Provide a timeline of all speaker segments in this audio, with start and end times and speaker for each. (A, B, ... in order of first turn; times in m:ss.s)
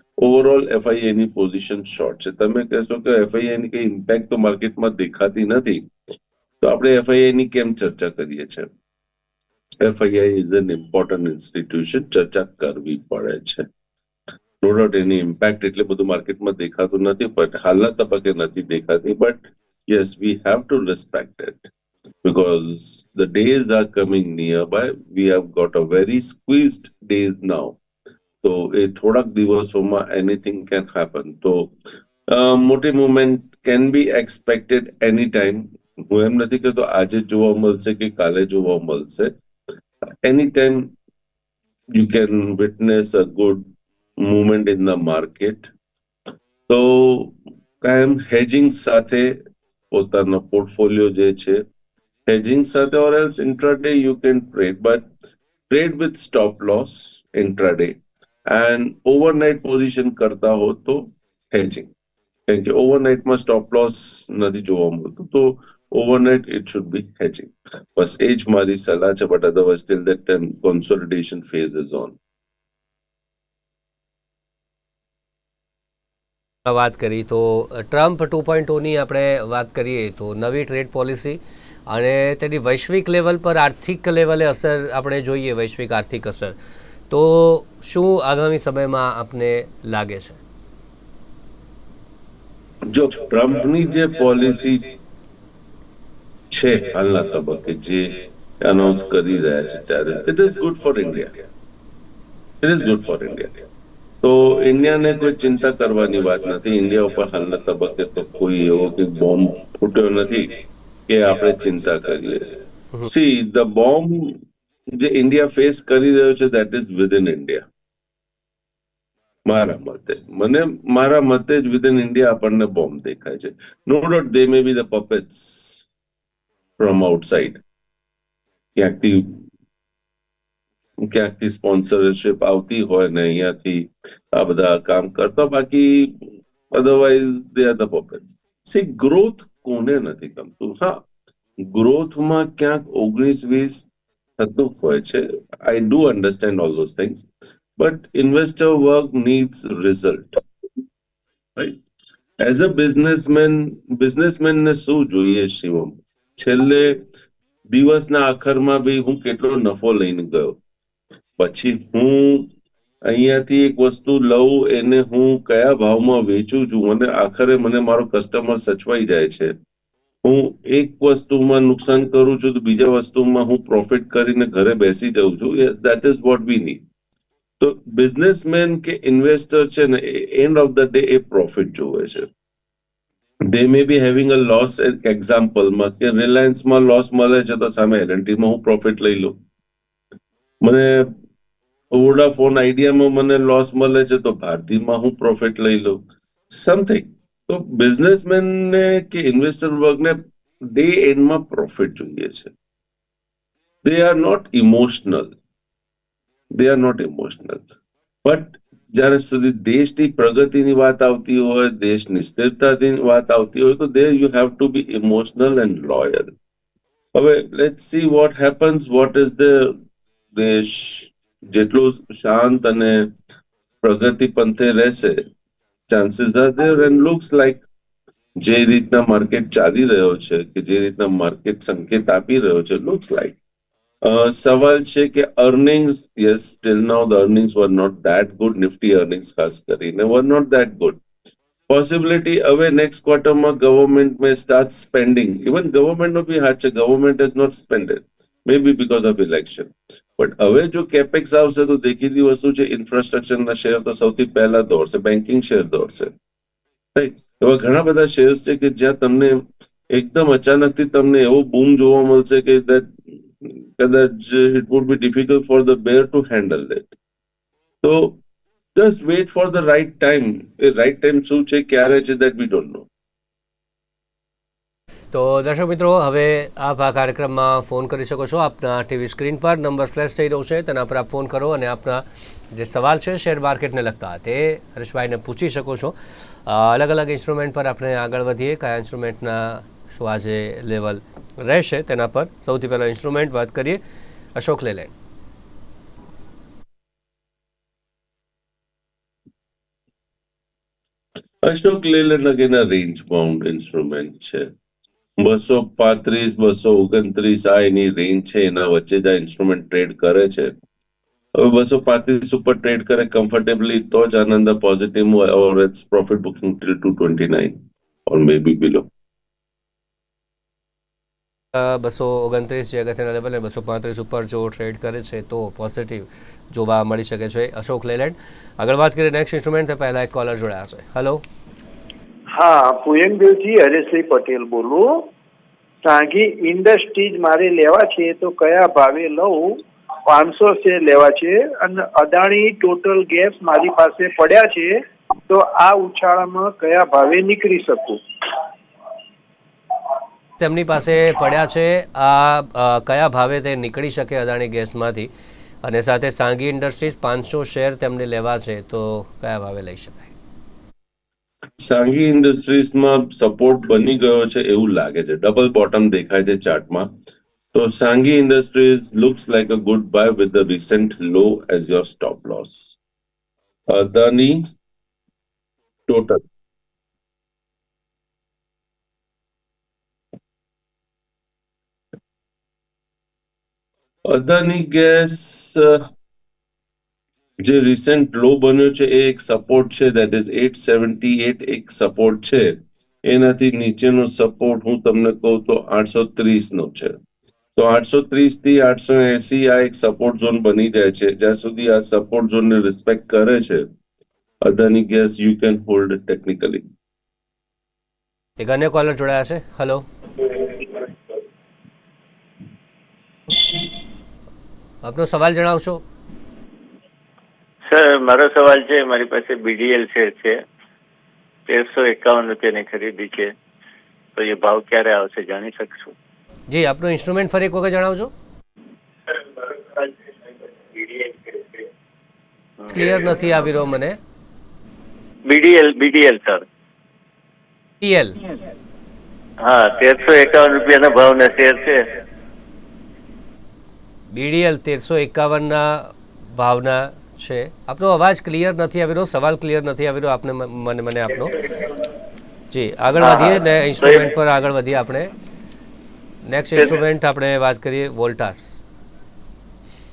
0:00.2-0:05.9 A
0:06.6-0:08.7 A
0:09.8-0:13.7 A
0:14.6-0:21.7 A
0:22.2-0:27.8 A
0:28.4-0:31.7 A
0:32.3-0:39.3 A
0:40.2-0:40.9 A
0:41.9-0:45.7 A
0:46.7-0:49.4 A
0:49.9-0:51.6 A
0:52.3-0:55.1 A
0:55.7-1:01.9 A
1:02.5-1:12.2 A
1:16.7-1:26.6 B
1:27.1-1:30.4 B
1:32.8-1:34.9 A
1:36.5-1:41.4 A
1:42.6-1:43.5 A
1:44.2-1:50.6 A
1:51.1-1:57.7 A
1:59.4-2:05.8 A
2:06.8-2:07.6 A
2:08.8-2:09.4 A
2:11.0-2:21.0 A
2:21.6-2:23.9 A
2:24.4-2:30.4 A
2:32.4-2:37.0 A
2:37.7-2:40.6 A
2:41.4-2:42.5 A
2:43.0-2:49.5 A
2:50.2-2:56.8 A
2:57.6-3:02.3 A
3:03.4-3:09.4 A
3:10.6-3:11.1 A
3:11.9-3:22.5 A
3:23.8-3:25.4 A
3:26.5-3:27.7 A
3:28.2-3:36.3 A
3:37.1-3:39.8 A
3:40.3-3:43.1 A
3:43.8-3:45.2 A
3:45.9-3:47.6 A
3:48.4-3:53.4 A
3:54.0-4:01.0 A
4:01.7-4:16.1 A
4:17.0-4:22.9 A
4:23.4-4:26.9 A
4:27.8-4:28.2 A
4:28.8-4:32.9 A
4:35.1-4:45.9 B
4:46.5-4:53.8 B
4:54.4-4:54.9 B
5:01.4-5:04.5 A
5:05.2-5:10.5 A
5:11.4-5:18.9 A
5:21.5-5:31.2 B
5:32.3-5:35.1 C
5:35.8-5:48.0 C
5:50.4-5:55.1 B
5:55.6-6:00.1 B
6:01.6-6:06.9 A
6:07.5-6:12.8 A
6:13.7-6:14.5 A
6:15.9-6:16.2 A
6:24.0-6:25.9 A
6:27.4-6:37.0 A
6:37.6-6:43.7 A
6:44.4-6:46.6 A
6:48.4-6:49.8 B
6:54.8-6:55.8 B
6:57.7-7:00.4 D
7:01.5-7:03.3 D
7:04.2-7:05.9 D
7:06.5-7:08.1 B
7:12.7-7:14.0 B
7:15.3-7:16.4 D
7:17.8-7:18.2 B
7:19.4-7:21.9 D
7:24.1-7:31.4 B
7:32.5-7:35.1 B
7:33.0-7:33.4 D
7:36.2-7:38.6 B